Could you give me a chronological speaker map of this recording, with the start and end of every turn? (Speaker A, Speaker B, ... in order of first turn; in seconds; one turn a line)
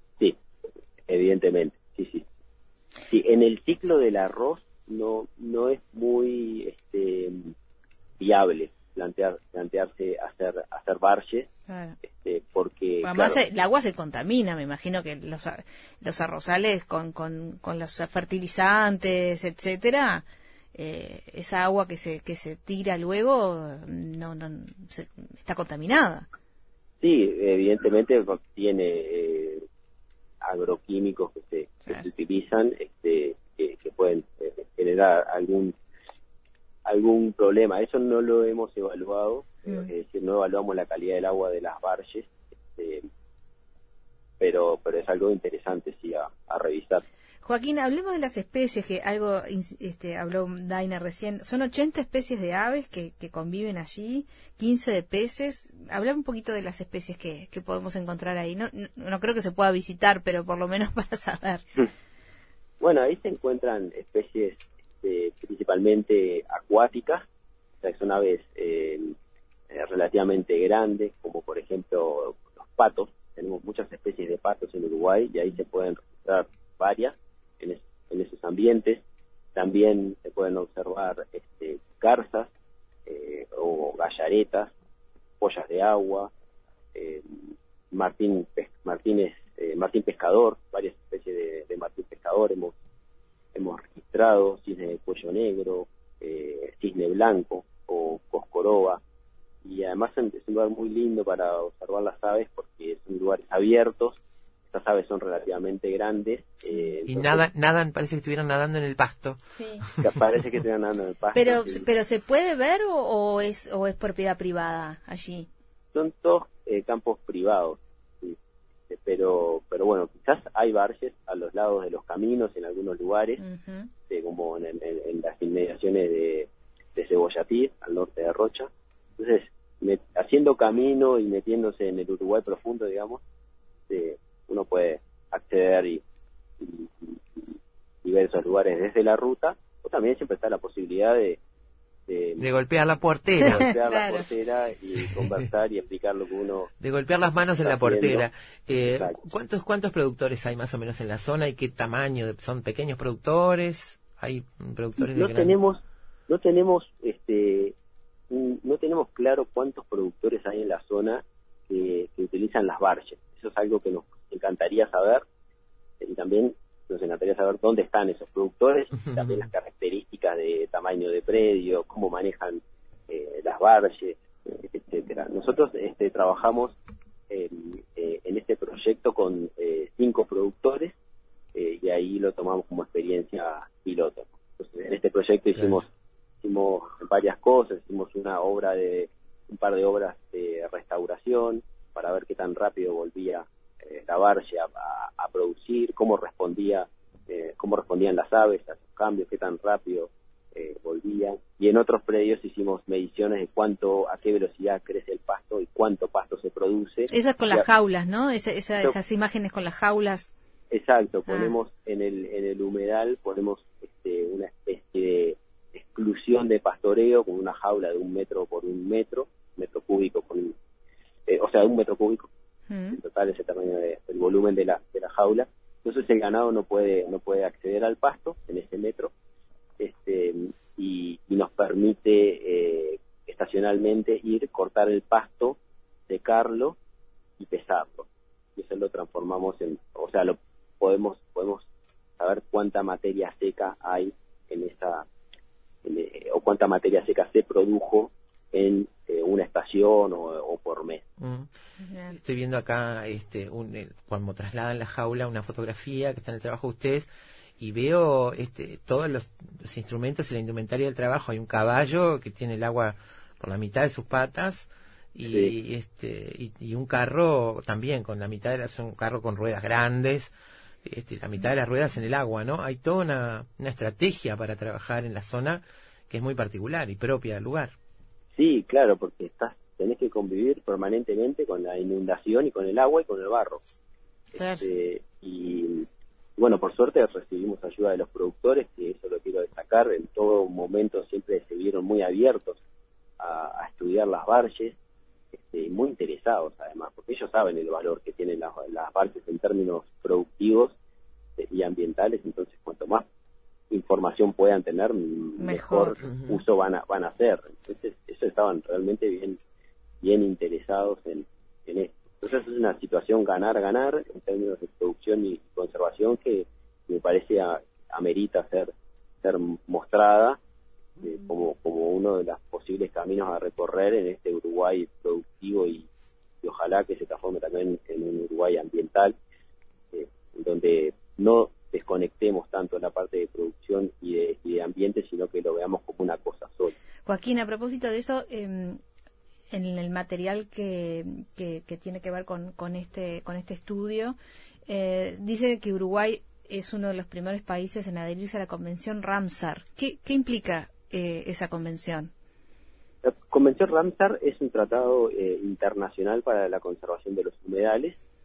Speaker A: 1.1-2.2
Speaker A: 3.1-7.5
Speaker A: 8.2-11.5
Speaker B: 11.7-11.9
Speaker A: 12.1-13.4
Speaker B: 13.0-26.3
Speaker A: 27.0-29.6
Speaker A: 30.4-35.7
Speaker A: 36.9-43.0
Speaker A: 44.4-47.0
Speaker B: 47.4-61.6
Speaker A: 62.8-67.2
Speaker A: 67.8-69.1
Speaker A: 69.7-79.0
Speaker A: 79.5-82.5
Speaker A: 83.0-84.7
Speaker A: 85.4-86.3
Speaker A: 86.9-92.7
Speaker A: 93.5-99.0
Speaker A: 99.6-107.4
Speaker C: 107.1-109.4
Speaker B: 109.5-109.8
Speaker A: 110.0-111.8
Speaker B: 111.3-115.5
Speaker A: 115.9-118.4
Speaker A: 118.9-123.4
Speaker B: 123.4-123.9
Speaker A: 124.1-133.2
Speaker A: 133.9-136.0
Speaker A: 136.6-141.4
Speaker A: 142.1-142.4
Speaker C: 142.4-143.7
Speaker A: 143.4-146.7
Speaker B: 143.4-144.2
Speaker C: 145.0-145.4
Speaker C: 146.8-155.5
Speaker A: 147.6-148.2
Speaker A: 148.8-149.2
Speaker A: 155.0-157.7
Speaker A: 158.3-165.2
Speaker A: 166.0-176.8
Speaker C: 169.1-169.4
Speaker A: 177.3-180.9
Speaker A: 181.5-185.9
Speaker A: 186.4-207.7
Speaker B: 207.1-210.3
Speaker A: 210.7-220.5
Speaker B: 211.3-211.5
Speaker A: 221.3-222.3
Speaker B: 222.7-223.0
Speaker A: 222.9-229.1
Speaker A: 229.8-235.6
Speaker A: 236.1-236.8
Speaker A: 237.4-241.7
Speaker A: 242.2-245.1
Speaker A: 245.8-251.0
Speaker C: 251.2-251.5
Speaker B: 251.8-252.2
Speaker C: 252.1-257.1
Speaker C: 257.6-270.3
Speaker A: 265.3-265.5
Speaker C: 270.8-277.7
Speaker A: 278.3-283.6
Speaker B: 284.3-284.6
Speaker A: 284.6-292.6
Speaker A: 293.2-294.8
Speaker A: 295.3-300.7
Speaker A: 301.4-303.0
Speaker A: 303.7-309.4
Speaker B: 305.4-306.0
Speaker C: 306.0-306.4
Speaker A: 310.0-320.4
Speaker A: 321.0-325.9
Speaker A: 326.4-329.1
Speaker A: 329.9-336.7
Speaker B: 337.1-338.8
Speaker B: 339.5-344.1
Speaker B: 344.7-352.1
Speaker A: 353.0-358.0